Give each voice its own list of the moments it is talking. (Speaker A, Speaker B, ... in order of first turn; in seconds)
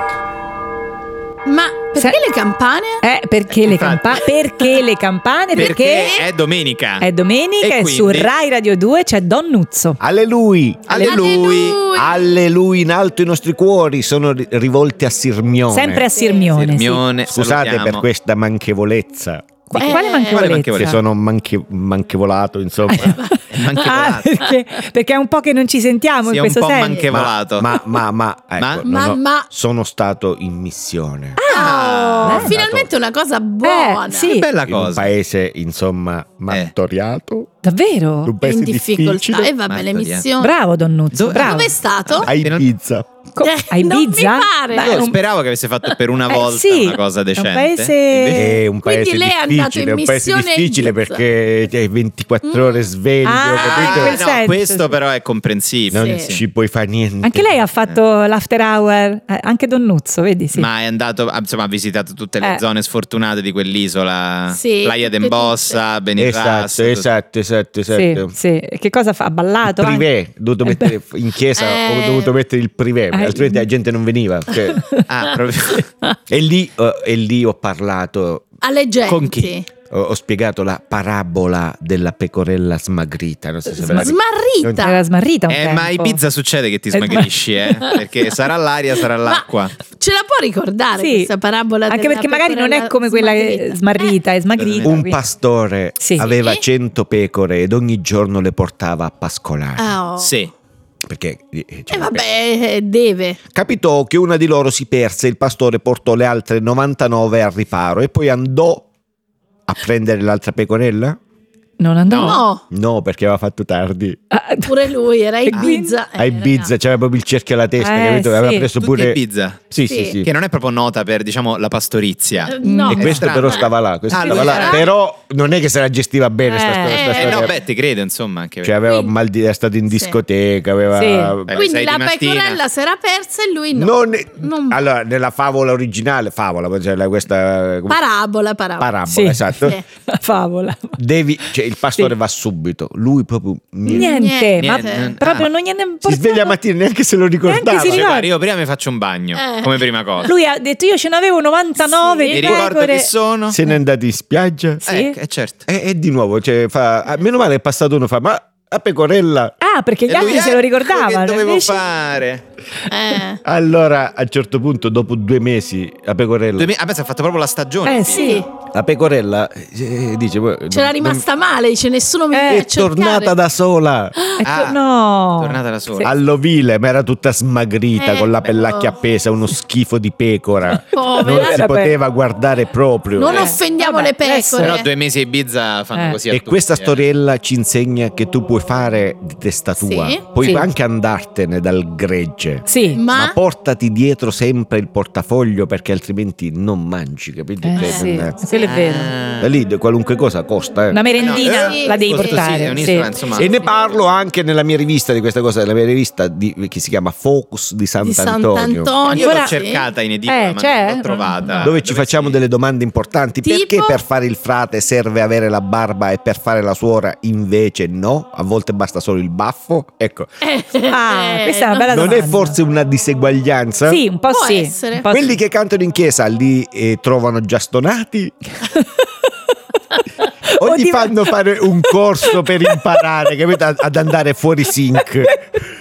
Speaker A: 1.4-3.0, 5.5-6.3, 11.0-12.2, 16.1-16.6, 19.8-20.5, 28.9-29.5, 31.5-34.4, 38.4-40.5, 41.4-42.3, 43.4-45.1, 48.8-51.2, 52.5-52.8, 56.0-56.3, 64.5-65.8, 71.6-72.3, 78.6-79.7, 83.8-85.0, 89.2-94.1, 96.2-96.6, 99.8-100.3, 101.9-103.4, 112.2-112.6, 114.7-116.7, 119.9-120.2, 122.5-124.8, 126.9-127.5, 128.8-129.2, 129.9-130.2, 131.6-134.8, 137.9-138.9, 139.6-139.8, 143.9-145.1, 149.3-150.3, 151.8-152.6, 162.9-163.4, 168.1-168.5, 170.7-173.3, 178.0-178.9, 180.9-181.6, 183.2-184.9, 189.8-190.2, 192.9-193.4, 197.8-198.1, 201.2-202.7, 208.0-209.9, 213.4-214.0, 220.4-222.0, 224.3-225.1
Speaker B: 3.0-6.2, 7.0-10.0, 10.9-11.2, 15.7-17.0, 19.7-21.0, 22.9-27.1, 31.4-31.7, 32.2-32.5, 33.6-34.5, 37.6-38.3, 40.4-41.7, 43.4-45.2, 46.3-48.5, 53.2-55.0, 57.2-60.7, 67.9-70.1, 70.7-70.9, 73.1-73.7, 84.8-86.2, 86.9-88.0, 91.0-91.3, 91.9-95.2, 96.0-96.3, 111.8-112.4, 114.3-114.7, 115.5-115.9, 117.8-118.7, 122.6-123.2, 126.5-127.2, 130.9-131.4, 139.1-139.6, 140.1-141.0, 143.9-146.6, 147.4-148.3, 150.2-153.1, 154.8-155.2, 159.6-161.8, 167.8-168.4, 172.3-172.7, 174.4-176.1, 181.2-182.0, 183.3-184.8, 190.4-190.7, 192.7-193.0, 197.6-199.1, 200.9-203.1, 209.1-209.6, 210.3-211.7, 220.9-222.6, 223.9-225.4, 230.5-231.3, 232.4-233.0
Speaker C: 3.5-4.3, 5.5-7.1, 7.6-8.3, 10.9-11.8, 16.5-18.1, 19.9-21.0, 23.5-24.4, 26.3-27.8, 28.6-28.9, 31.5-32.5, 34.2-35.1, 39.7-40.2, 41.1-42.7, 44.8-48.6, 53.6-56.4, 60.5-67.1, 75.1-75.9, 79.1-79.5, 85.5-89.8, 94.6-95.0, 100.2-100.5, 112.1-112.4, 118.8-124.9, 126.9-128.8, 131.5-132.6, 144.6-145.5, 147.8-150.3, 152.3-153.6, 154.9-155.7, 160.1-162.4, 166.6-168.4, 174.4-176.1, 183.3-183.5, 184.6-187.0, 198.5-199.5, 201.2-203.5, 209.1-212.4
Speaker D: 10.0-10.9, 11.9-16.1, 17.3-19.6, 20.7-23.2, 27.1-31.4, 32.3-32.9, 34.7-37.5, 38.2-39.5, 42.2-43.1, 48.3-54.2, 55.9-57.6, 66.2-68.3, 69.6-74.8, 76.3-78.5, 79.9-84.9, 94.8-99.9, 101.1-102.2, 103.5-108.9, 109.7-111.2, 112.7-114.2, 115.5-119.2, 119.7-120.3, 122.9-127.5, 128.6-131.6, 133.8-138.0, 138.8-139.8, 141.0-144.2, 146.1-148.1, 153.5-154.8, 155.7-159.6, 163.4-166.7, 168.7-171.3, 172.5-174.2, 176.0-183.5, 186.3-198.4, 199.4-201.0, 203.3-208.9, 211.6-220.3, 221.9-224.0, 225.1-228.3, 230.6-235.5